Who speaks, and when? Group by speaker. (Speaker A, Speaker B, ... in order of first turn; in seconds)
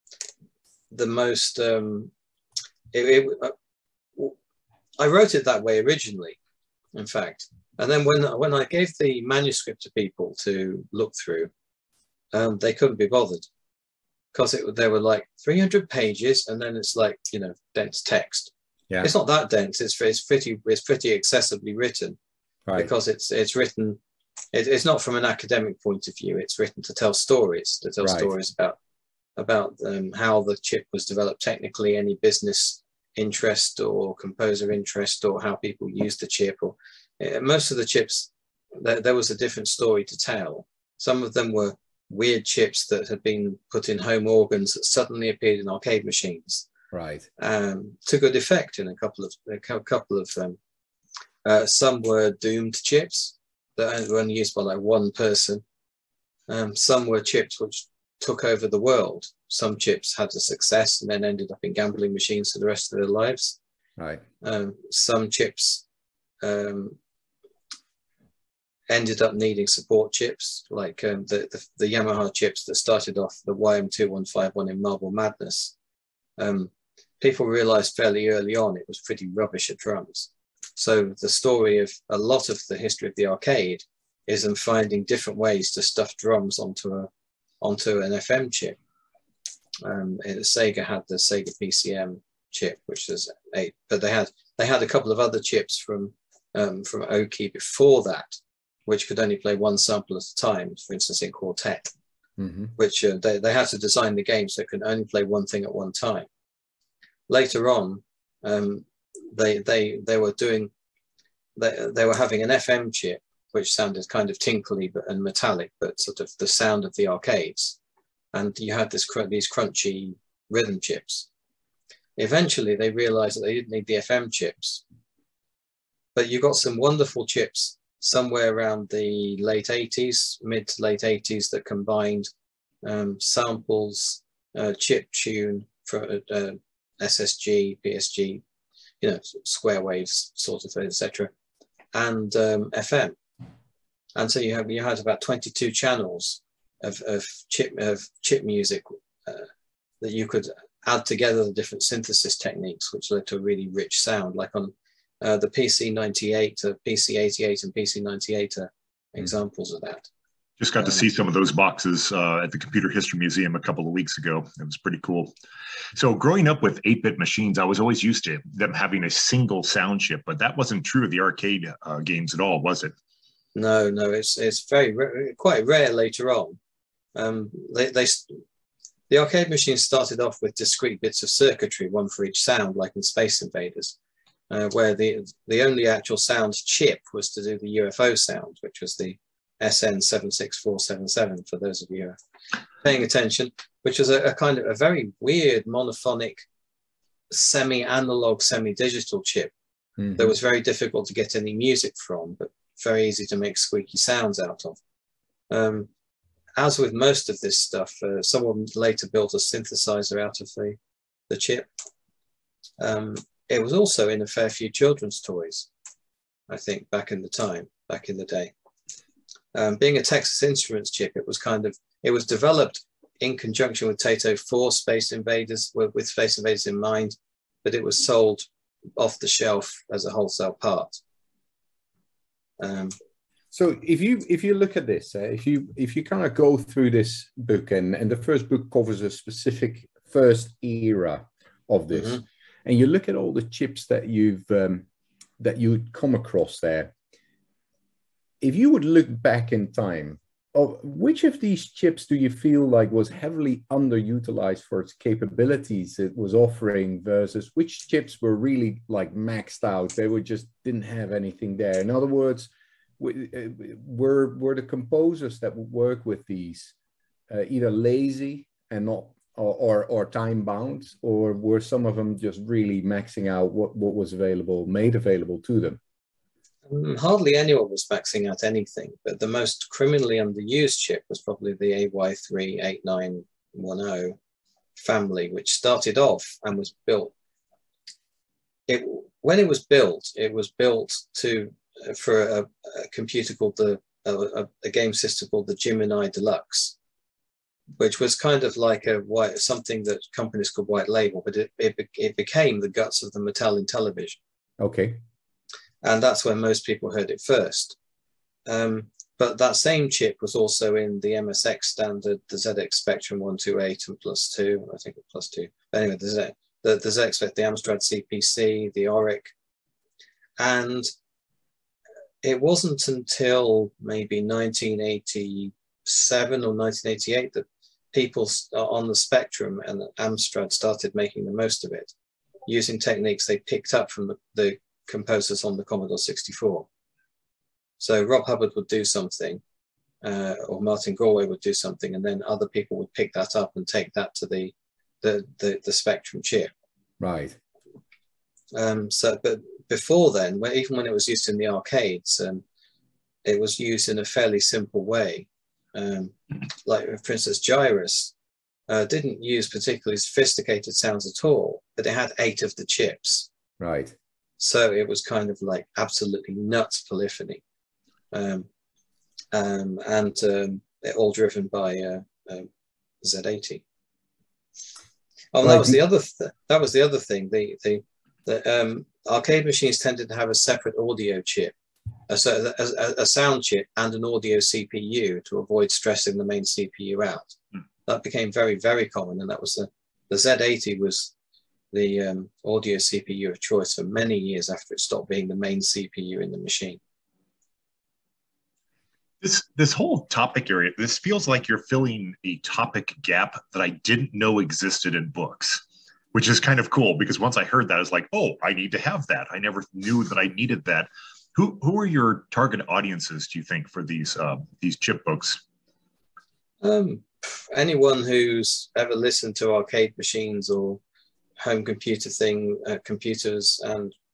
Speaker A: 0.9-2.1, 2.9-3.5, 5.0-6.4, 7.0-11.5, 12.3-13.5, 14.3-22.2, 22.8-24.0, 24.5-28.8, 29.4-46.7, 47.4-50.6, 51.4-55.6, 56.5-63.6, 64.4-65.8, 66.4-67.0, 68.9-75.8, 76.4-87.1, 87.6-88.8, 89.8-101.9, 102.8-106.3, 107.3-110.7, 111.6-117.8, 118.3-121.3, 122.2-124.8, 126.2-132.3, 132.8-138.4, 139.0-141.3, 141.9-143.2, 144.2-149.5, 150.0-160.1, 160.8-161.1, 173.6-176.6, 177.2-178.4, 179.1-184.0, 184.5-192.2, 192.8-196.4, 197.3-199.5, 200.2-204.8, 205.5-205.9, 206.6-210.8, 211.3-211.7, 212.8-215.7, 216.5-218.5, 219.5-231.0, 232.6-232.9, 241.9-242.2, 276.7-284.2, 284.8-287.1, 288.7-296.8, 297.8-304.2, 305.8-307.8, 308.5-319.3, 320.4-320.9, 322.2-331.9, 332.5-336.7, 337.8-339.4, 340.0-346.5, 348.5-352.4, 353.2-358.1, 358.7-363.3, 364.4-367.4, 368.1-368.5, 369.3-372.5, 373.0-373.6, 375.3-381.5, 382.1-387.4, 387.9-391.1, 391.7-396.8, 416.6-420.8, 421.4-423.9
Speaker B: 28.0-28.3, 46.9-47.3, 64.0-64.2, 102.4-102.7, 200.0-200.3, 233.5-244.9, 245.4-246.9, 248.4-266.7, 267.3-275.8, 304.6-305.0, 347.0-347.4, 363.6-363.9, 375.4-375.8
Speaker C: 160.6-165.3, 165.9-172.9, 399.2-405.6, 406.1-415.4